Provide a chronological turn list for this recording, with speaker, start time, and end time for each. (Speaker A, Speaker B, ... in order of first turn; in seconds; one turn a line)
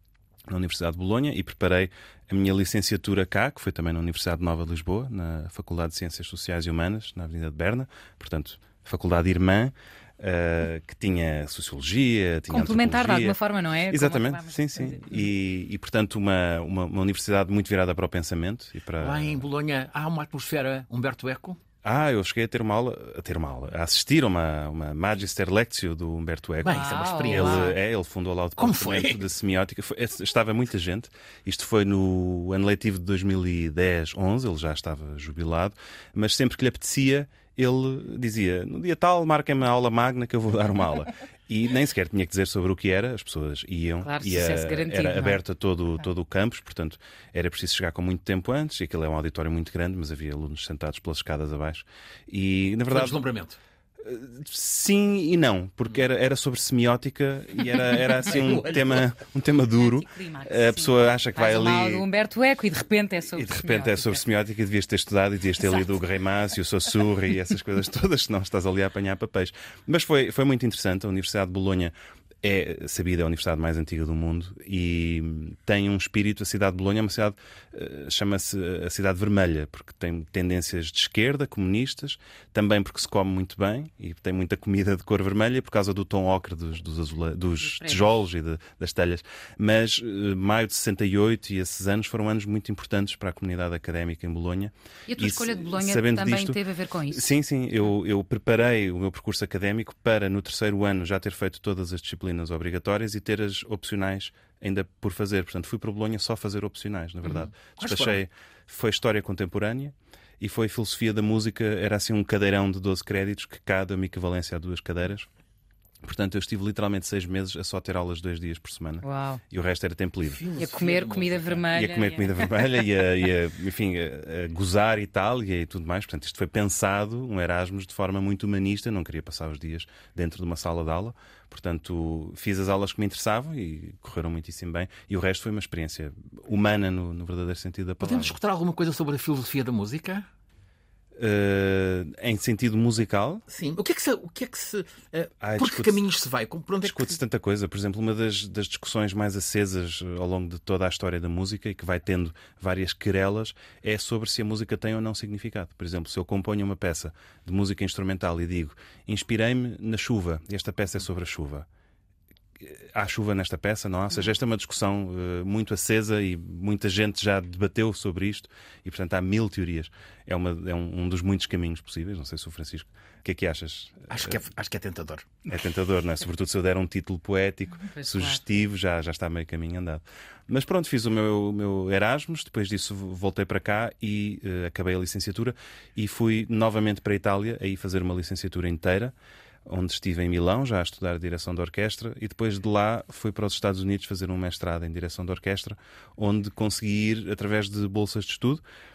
Speaker A: 0.5-19.5
Speaker B: 12.5-15.3
Speaker C: 19.0-21.6
Speaker A: 21.8-53.2
Speaker C: 26.6-27.8
Speaker B: 26.7-27.8
Speaker C: 28.6-29.2
Speaker B: 44.0-45.4
Speaker C: 52.9-53.6
Speaker A: 54.0-62.0
Speaker C: 58.3-59.1
Speaker B: 59.8-64.2
Speaker A: 63.3-115.3
Speaker B: 65.6-65.9
Speaker B: 87.6-88.1
Speaker B: 95.1-97.3
Speaker C: 107.8-108.2
Speaker A: 116.0-120.5
Speaker B: 119.0-119.4
Speaker C: 120.2-121.7
Speaker B: 120.6-122.6
Speaker A: 121.7-138.4
Speaker C: 138.0-140.3
Speaker A: 141.2-143.4
Speaker C: 143.5-147.2
Speaker A: 145.4-146.0
Speaker A: 146.8-161.7
Speaker A: 162.6-174.4
Speaker C: 174.1-175.3
Speaker A: 175.5-189.2
Speaker B: 177.9-178.4
Speaker A: 189.7-198.6